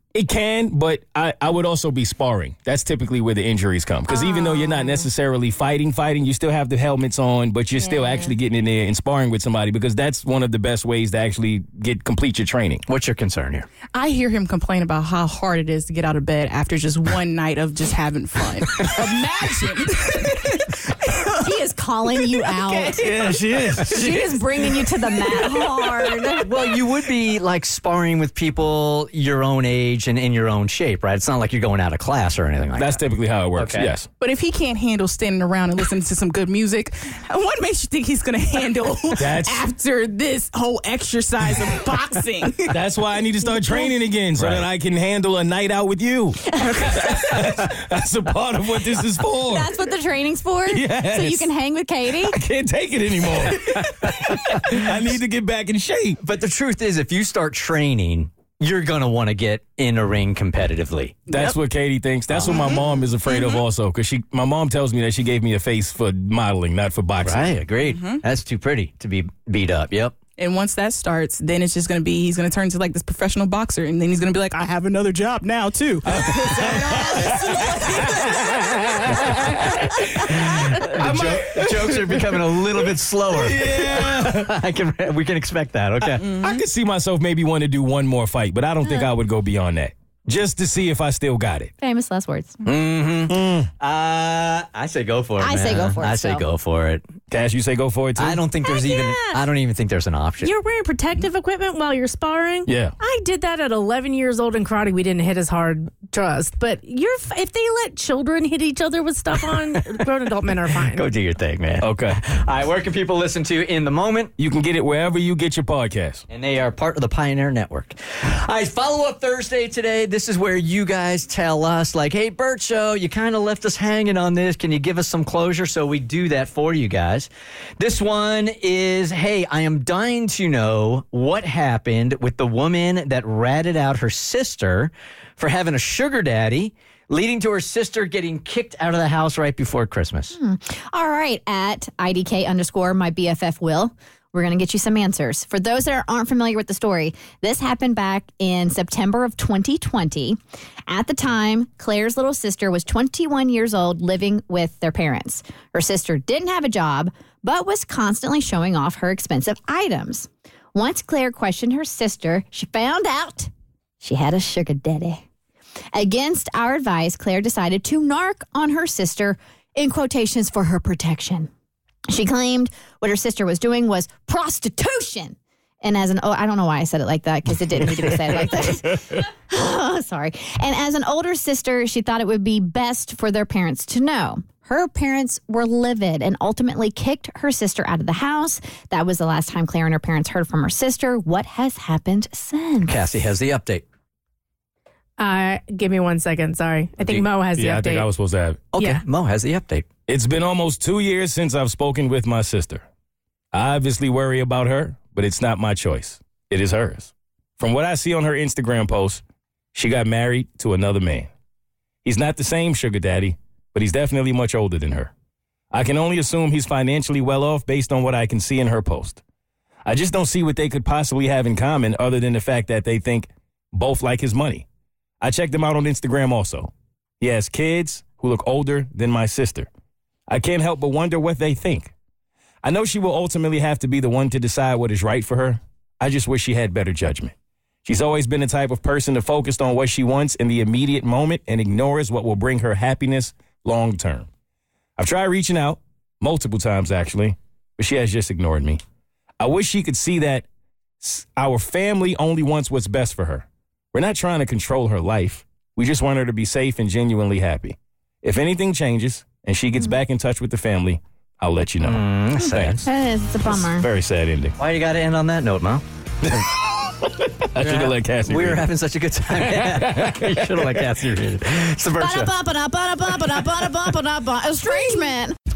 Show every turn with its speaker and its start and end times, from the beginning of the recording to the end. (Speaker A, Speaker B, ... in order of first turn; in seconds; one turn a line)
Speaker A: 0.1-12.8
Speaker B: 4.1-5.1
Speaker B: 7.8-8.3
Speaker C: 12.9-13.7
Speaker D: 13.9-21.4
Speaker B: 21.4-23.1
Speaker D: 22.2-26.4
Speaker C: 23.0-23.8
Speaker A: 23.2-23.8
Speaker B: 23.8-26.4
Speaker C: 26.4-33.9
Speaker A: 32.8-34.1
Speaker D: 34.2-42.8
Speaker A: 39.2-39.6
Speaker A: 42.7-49.7
Speaker C: 44.3-44.6
Speaker B: 49.4-52.4
Speaker A: 50.7-51.5
Speaker A: 52.2-56.2
Speaker C: 56.2-61.2
Speaker D: 61.3-61.5
Speaker A: 61.3-67.6
Speaker C: 62.3-62.8
Speaker C: 67.2-70.2
Speaker D: 67.8-68.2
Speaker D: 70.4-79.8
Speaker A: 76.0-82.6
Speaker C: 80.3-86.2
Speaker A: 83.3-84.6
Speaker A: 86.2-91.7
Speaker B: 91.8-92.5
Speaker C: 92.6-97.0
Speaker A: 93.3-93.7
Speaker B: 95.4-96.4
Speaker A: 97.3-98.4
Speaker C: 98.2-100.5
Speaker E: 98.7-99.4
Speaker E: 100.4-111.0
Speaker A: 102.7-103.0
Speaker C: 109.3-110.0
Speaker C: 110.8-114.3
Speaker A: 111.8-112.2
Speaker A: 114.4-116.2
Speaker C: 116.3-140.3
Speaker B: 140.3-163.5
Speaker B: 164.0-165.2
Speaker B: 165.9-171.5
Speaker B: 172.1-193.1
Speaker C: 192.8-193.8
Speaker E: 195.2-198.1
Speaker A: 197.6-198.6
Speaker C: 198.7-199.8
Speaker E: 198.8-199.0
Speaker A: 200.1-202.8
Speaker A: 203.5-209.2
Speaker A: 209.7-211.3
Speaker A: 212.0-215.1
Speaker A: 215.7-219.2
Speaker A: 219.8-224.7
Speaker A: 225.2-229.7
Speaker A: 230.3-231.9
Speaker A: 232.6-237.3
Speaker A: 237.8-244.3
Speaker A: 245.0-248.8
Speaker A: 249.4-250.4
Speaker A: 251.0-262.8
Speaker C: 261.8-262.9
Speaker B: 262.4-263.9
Speaker A: 263.4-264.6
Speaker C: 264.6-265.8
Speaker A: 266.2-268.6
Speaker C: 267.6-272.3
Speaker A: 269.4-270.9
Speaker B: 272.0-275.3